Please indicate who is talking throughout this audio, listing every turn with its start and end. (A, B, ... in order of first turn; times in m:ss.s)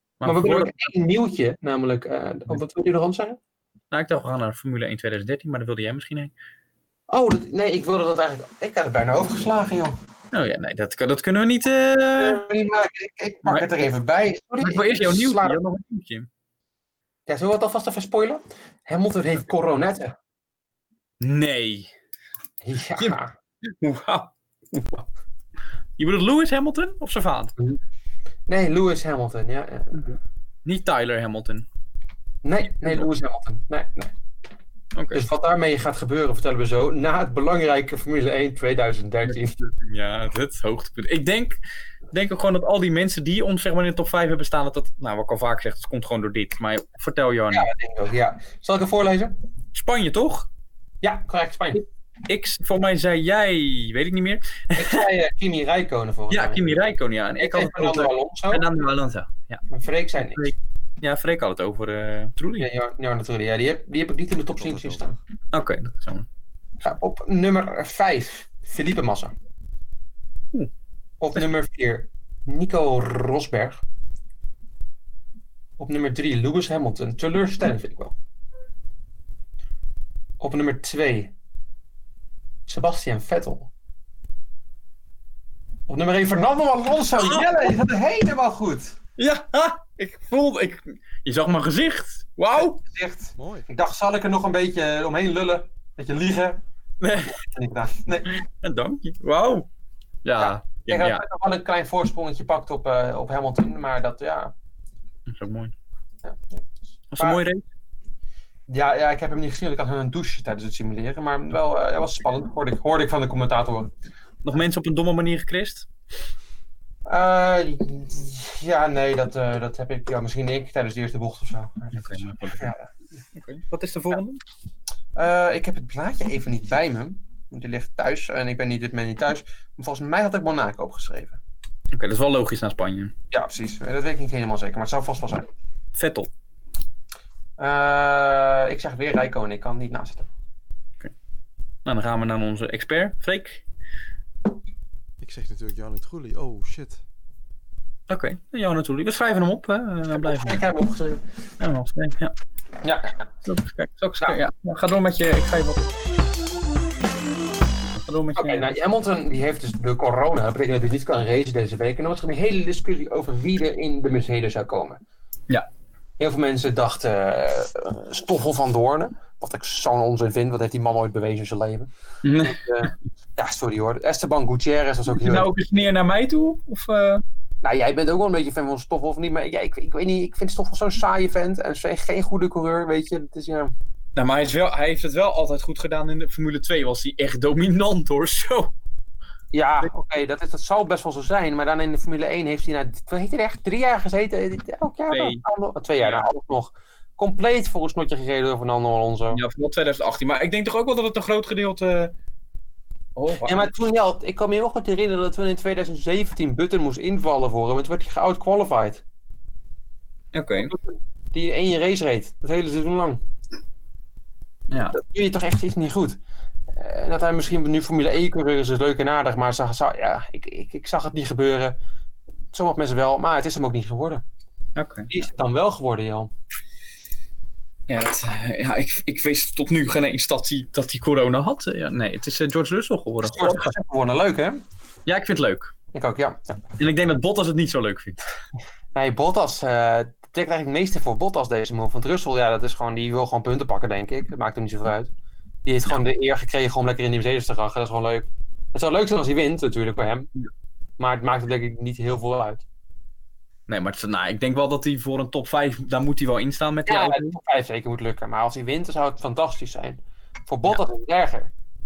0:00.2-0:00.7 A
0:00.2-0:03.4 B
0:03.9-0:06.3 A
0:07.1-0:10.0 B
0:10.3-0:12.4 A
0:12.2-0:15.6 B
0:14.6-0:16.3 A
0:17.3-0:20.1 B
0:21.2-0:21.9 A
0:22.6-0:23.3 B
0:23.0-0:25.0 A
0:26.0-0:27.5 A
0:28.5-0:30.1 B
0:29.9-0:31.6 A
0:32.4-0:34.1 B
0:34.9-0:35.3 A
0:35.1-0:39.5 B
0:39.2-0:41.6 A
0:42.1-0:47.7 A
0:47.5-0:49.4 B
0:49.7-0:50.5 A
0:51.0-0:51.8 B
0:52.3-0:55.0 A
0:54.8-0:56.6 B
0:56.3-0:59.6 A
0:57.4-0:58.6 B
0:59.7-1:00.5 B
1:00.2-1:02.7 A
1:02.6-1:05.2 B
1:05.5-1:06.3 A
1:06.8-1:09.3 B
1:11.2-1:13.8 B
1:15.8-1:18.1 B
1:20.4-1:21.3 B
1:22.7-1:23.7 B
1:25.9-1:29.0 B
1:27.2-1:27.5 A
1:29.2-1:32.8 A
1:32.5-1:36.6 B
1:33.4-1:33.7 C
1:37.0-1:37.4 A
1:37.3-1:38.3 B
1:38.3-1:39.7 A
1:40.2-1:41.2 A
1:40.4-1:44.5 B
1:45.3-1:45.7 A
1:46.2-1:47.4 B
1:47.1-1:47.6 A
1:48.7-1:53.9 B
1:54.4-1:55.9 A
1:57.0-2:02.9 B
2:01.9-2:02.7 A
2:03.3-2:04.4 A
2:05.2-2:11.4 B
2:11.9-2:13.1 A
2:13.3-2:15.5 B
2:16.0-2:16.3 A
2:17.6-2:20.3 B
2:21.8-2:23.6 A
2:25.2-2:27.0 C
2:28.1-2:30.6 A
2:30.1-2:31.2 B
2:31.6-2:32.3 A
2:32.8-2:33.1 B
2:33.4-2:35.9 A
2:37.9-2:38.7 A
2:38.4-2:45.0 B
2:46.2-2:51.9 B
2:52.2-2:52.9 A
2:52.4-2:55.5 B
2:55.2-2:57.2 A
2:57.6-3:03.7 B
3:04.2-3:08.7 A
3:09.5-3:19.4 B
3:15.1-3:15.4 A
3:16.0-3:16.3 A
3:19.3-3:22.1 A
3:23.2-3:23.7 A
3:23.4-3:29.0 B
3:30.3-3:30.7 A
3:30.6-3:33.2 B
3:34.7-3:35.0 A
3:34.9-3:36.2 B
3:36.7-3:41.8 B
3:42.5-3:44.2 B
3:44.8-3:45.1 A
3:45.1-3:46.3 B
3:47.9-3:53.7 A
3:53.2-3:54.6 B
3:55.0-3:55.7 A
3:55.9-3:56.6 B
3:56.8-3:58.2 A
3:58.9-4:05.1 B
4:05.6-4:10.3 B
4:11.0-4:12.6 B
4:13.7-4:17.4 A
4:16.9-4:21.5 B